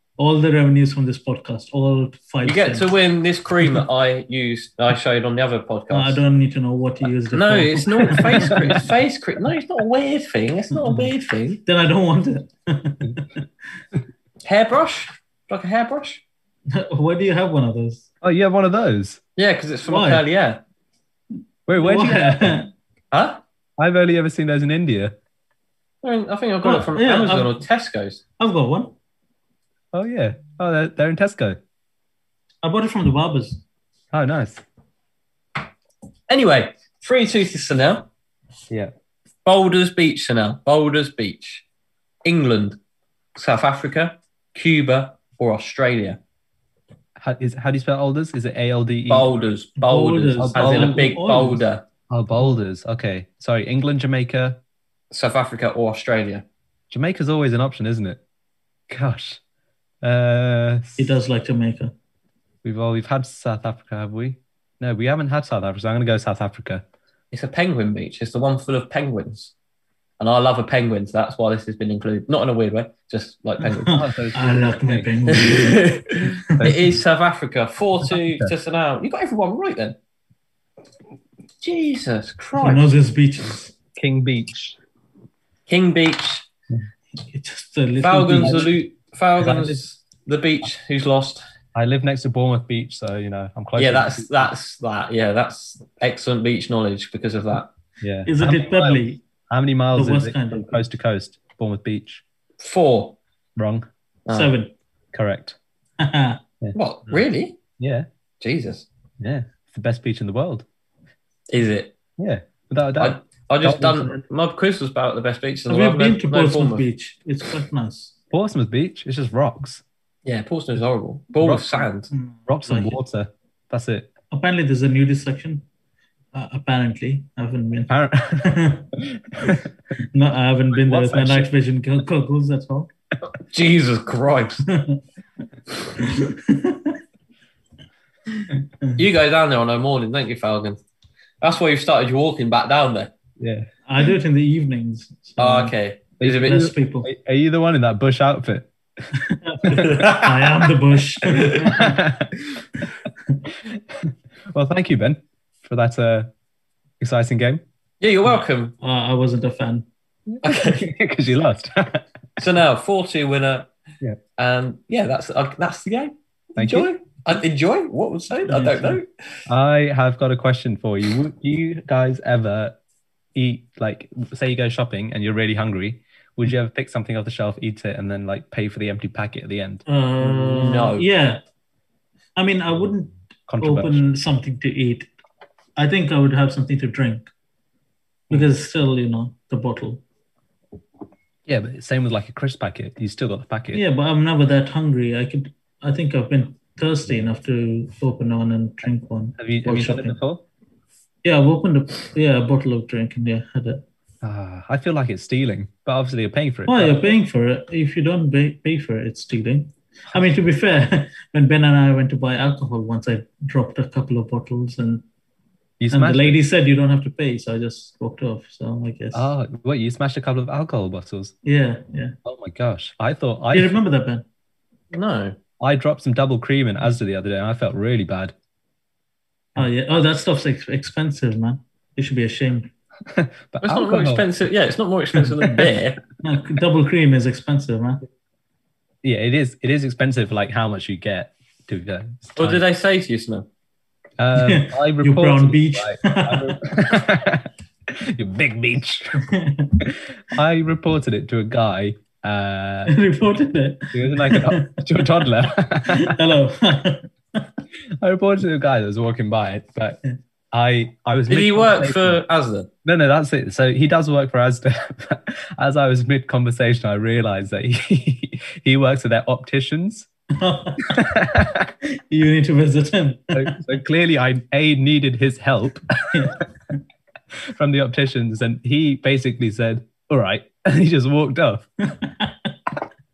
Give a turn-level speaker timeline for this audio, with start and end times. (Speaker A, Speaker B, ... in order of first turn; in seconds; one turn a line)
Speaker A: 0.2-2.9
Speaker B: 2.4-6.2
Speaker A: 5.9-8.6
Speaker B: 7.3-11.6
Speaker A: 10.8-11.1
Speaker A: 11.7-13.4
Speaker B: 14.4-16.2
Speaker A: 16.7-18.1
Speaker C: 18.2-19.2
Speaker B: 19.4-20.6
Speaker A: 19.9-20.2
Speaker C: 21.7-22.6
Speaker A: 21.8-22.7
Speaker B: 23.1-23.4
Speaker C: 23.8-25.1
Speaker B: 26.0-28.2
Speaker A: 26.6-27.5
Speaker A: 28.4-28.9
Speaker C: 29.9-31.6
Speaker A: 32.6-33.6
Speaker C: 34.1-34.6
Speaker B: 36.3-38.1
Speaker B: 39.4-41.6
Speaker B: 42.2-42.8
Speaker B: 43.4-46.2
Speaker C: 47.2-49.3
Speaker B: 49.1-51.8
Speaker A: 49.8-51.6
Speaker C: 50.4-51.1
Speaker C: 52.1-54.6
Speaker B: 55.1-56.4
Speaker C: 56.9-58.2
Speaker C: 58.9-59.4
Speaker C: 60.0-61.2
Speaker A: 61.0-61.9
Speaker C: 62.6-66.8
Speaker B: 67.3-69.5
Speaker B: 70.2-74.0
Speaker A: 73.6-75.8
Speaker C: 73.9-75.1
Speaker B: 75.3-80.0
Speaker C: 78.0-78.5
Speaker B: 81.6-82.8
Speaker A: 82.6-83.7
Speaker C: 84.0-84.8
Speaker B: 85.7-86.5
Speaker A: 87.2-88.8
Speaker B: 88.0-91.4
Speaker C: 89.4-89.8
Speaker C: 91.7-94.5
Speaker B: 93.8-97.7
Speaker C: 98.0-102.2
Speaker A: 98.2-99.2
Speaker A: 99.9-100.8
Speaker B: 102.6-103.2
Speaker C: 103.6-103.9
Speaker B: 104.2-104.5
Speaker A: 104.3-104.7
Speaker C: 105.1-105.6
Speaker A: 106.0-106.4
Speaker B: 106.7-107.6
Speaker C: 107.8-108.1
Speaker B: 108.4-108.9
Speaker C: 109.2-110.6
Speaker B: 111.5-111.9
Speaker C: 112.2-114.2
Speaker B: 113.0-116.8
Speaker A: 115.7-118.1
Speaker C: 118.3-119.8
Speaker B: 120.2-122.1
Speaker C: 121.4-121.9
Speaker A: 122.1-123.0
Speaker C: 122.5-124.1
Speaker A: 124.3-125.6
Speaker A: 126.3-129.6
Speaker C: 127.9-129.7
Speaker A: 130.1-132.9
Speaker C: 130.7-131.5
Speaker B: 133.5-134.7
Speaker A: 134.7-135.0
Speaker A: 135.9-137.0
Speaker B: 139.0-140.8
Speaker B: 141.4-143.1
Speaker C: 143.4-143.7
Speaker A: 143.8-147.1
Speaker B: 145.4-146.6
Speaker C: 146.2-149.2
Speaker A: 149.2-152.0
Speaker B: 149.7-150.6
Speaker B: 151.2-151.7
Speaker C: 151.6-152.3
Speaker C: 154.0-156.3
Speaker C: 157.0-157.6
Speaker B: 158.0-158.7
Speaker A: 158.8-159.8
Speaker C: 160.4-162.0
Speaker B: 160.4-160.8
Speaker B: 162.4-163.7
Speaker B: 164.4-169.0
Speaker C: 166.6-166.9
Speaker A: 168.4-169.0
Speaker C: 169.5-172.7
Speaker C: 173.3-179.8
Speaker A: 179.8-181.4
Speaker B: 180.5-181.1
Speaker A: 182.3-185.1
Speaker C: 183.5-184.1
Speaker A: 185.8-187.3
Speaker A: 188.3-190.0
Speaker C: 191.4-193.8
Speaker A: 193.7-200.2
Speaker C: 199.4-200.4
Speaker A: 201.2-203.8
Speaker C: 204.2-207.1
Speaker A: 206.7-215.0
Speaker C: 215.8-216.4
Speaker A: 215.9-219.3
Speaker C: 219.1-221.3
Speaker A: 221.4-222.1
Speaker C: 222.2-223.8
Speaker A: 223.5-224.2
Speaker B: 224.9-225.3
Speaker C: 225.6-228.3
Speaker A: 229.6-232.7
Speaker C: 233.1-234.3
Speaker B: 233.6-236.0
Speaker A: 236.2-238.0
Speaker C: 239.0-242.6
Speaker B: 242.3-243.4
Speaker C: 244.2-249.2
Speaker A: 244.3-246.6
Speaker A: 249.2-249.8
Speaker C: 249.8-252.9
Speaker A: 252.9-254.8
Speaker C: 253.9-256.2
Speaker A: 255.8-257.4
Speaker C: 258.0-260.0
Speaker C: 260.5-262.2
Speaker B: 261.3-262.7
Speaker C: 262.8-270.1
Speaker A: 270.3-271.0
Speaker C: 270.8-271.7
Speaker A: 272.1-273.7
Speaker C: 273.3-276.2
Speaker A: 276.1-276.7
Speaker C: 277.3-281.7
Speaker A: 281.8-282.5